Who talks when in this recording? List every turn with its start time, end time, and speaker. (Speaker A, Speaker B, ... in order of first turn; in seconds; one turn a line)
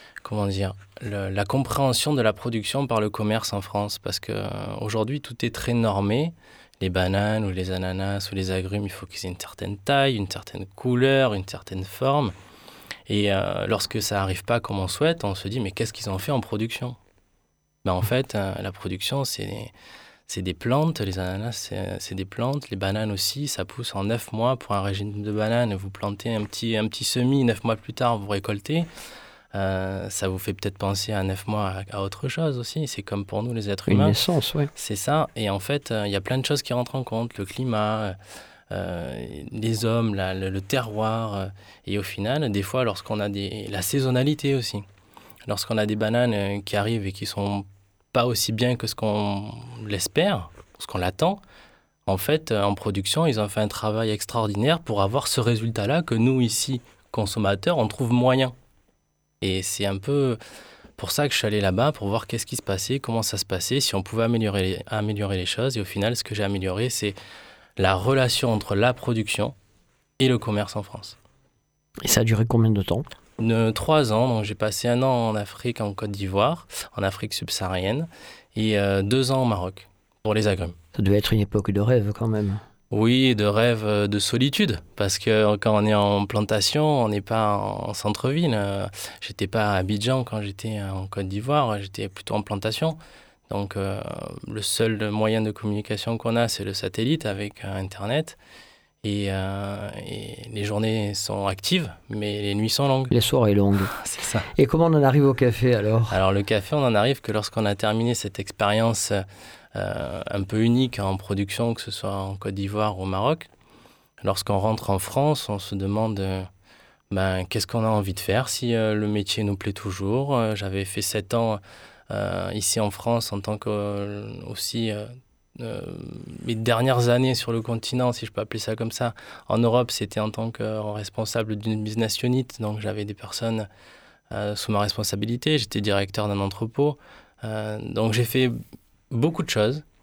Speaker A: 0.2-12.3
Speaker A: 13.1-17.0
Speaker A: 17.8-19.7
Speaker A: 20.3-28.9
Speaker A: 29.5-34.2
Speaker B: 33.9-34.7
Speaker A: 34.8-38.1
Speaker A: 38.7-44.9
Speaker A: 45.5-51.4
Speaker A: 52.1-58.5
Speaker A: 59.4-60.4
Speaker A: 61.0-67.2
Speaker A: 67.8-69.5
Speaker A: 70.2-71.2
Speaker B: 72.0-73.0
Speaker A: 73.4-80.8
Speaker B: 81.0-82.6
Speaker A: 82.9-93.0
Speaker A: 93.5-98.4
Speaker A: 99.0-103.1
Speaker B: 103.1-103.9
Speaker A: 103.9-104.5
Speaker B: 104.5-106.2
Speaker A: 106.1-109.2
Speaker A: 109.8-113.5
Speaker A: 114.2-116.5
Speaker A: 117.1-133.7
Speaker A: 134.3-138.6
Speaker A: 139.1-139.8